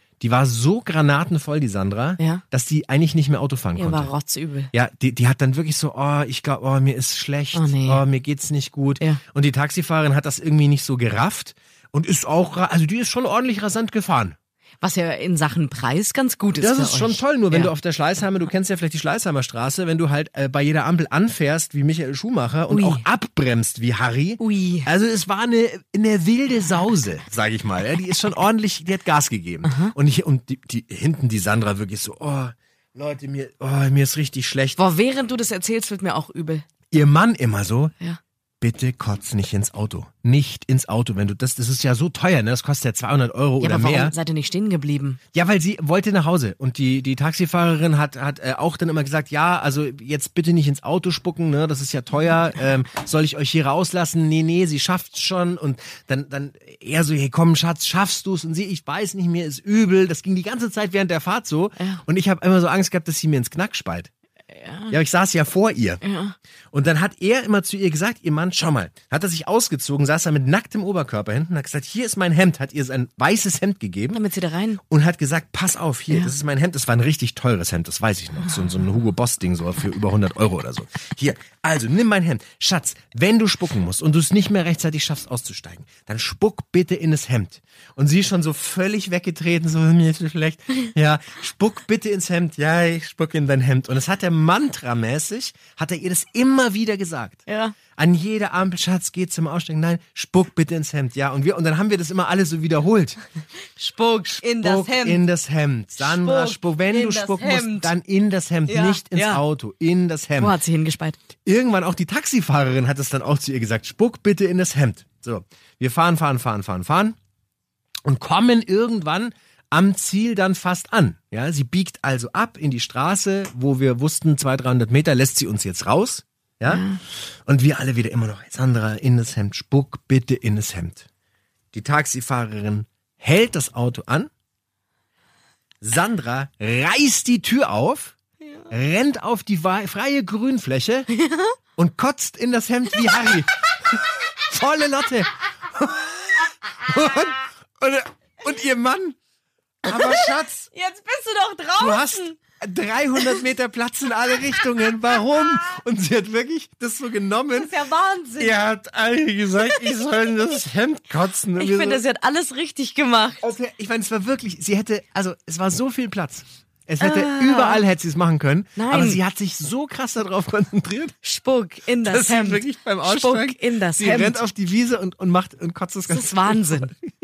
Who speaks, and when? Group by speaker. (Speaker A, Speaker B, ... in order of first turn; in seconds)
Speaker A: 0.2-4.1, 4.7-14.3, 16.6-34.8, 36.9-37.9, 38.6-44.1, 45.3-64.1, 64.9-66.0, 66.7-74.2, 74.9-97.4, 98.0-103.2, 104.5-110.6, 111.4-117.2, 118.0-126.8, 127.5-131.1, 131.7-134.3, 135.8-138.2, 138.7-141.1, 141.8-145.3, 146.8-149.2, 149.8-150.7, 151.8-157.7, 158.4-162.0, 163.4-171.1, 172.0-177.0
Speaker B: 3.7-4.7, 7.5-8.0, 14.8-17.7, 22.7-23.0, 24.4-24.9, 29.6-29.9, 34.8-36.6, 43.6-45.2, 61.8-62.0, 64.5-65.0, 66.0-66.3, 74.1-74.8, 76.1-76.3, 97.5-97.8, 103.8-105.2, 106.0-107.9, 108.7-109.4, 110.4-111.2, 126.6-127.0, 141.1-141.6, 149.8-152.3, 157.6-158.5, 161.5-163.4, 167.0-167.8, 168.8-169.2, 171.2-174.4, 176.1-176.9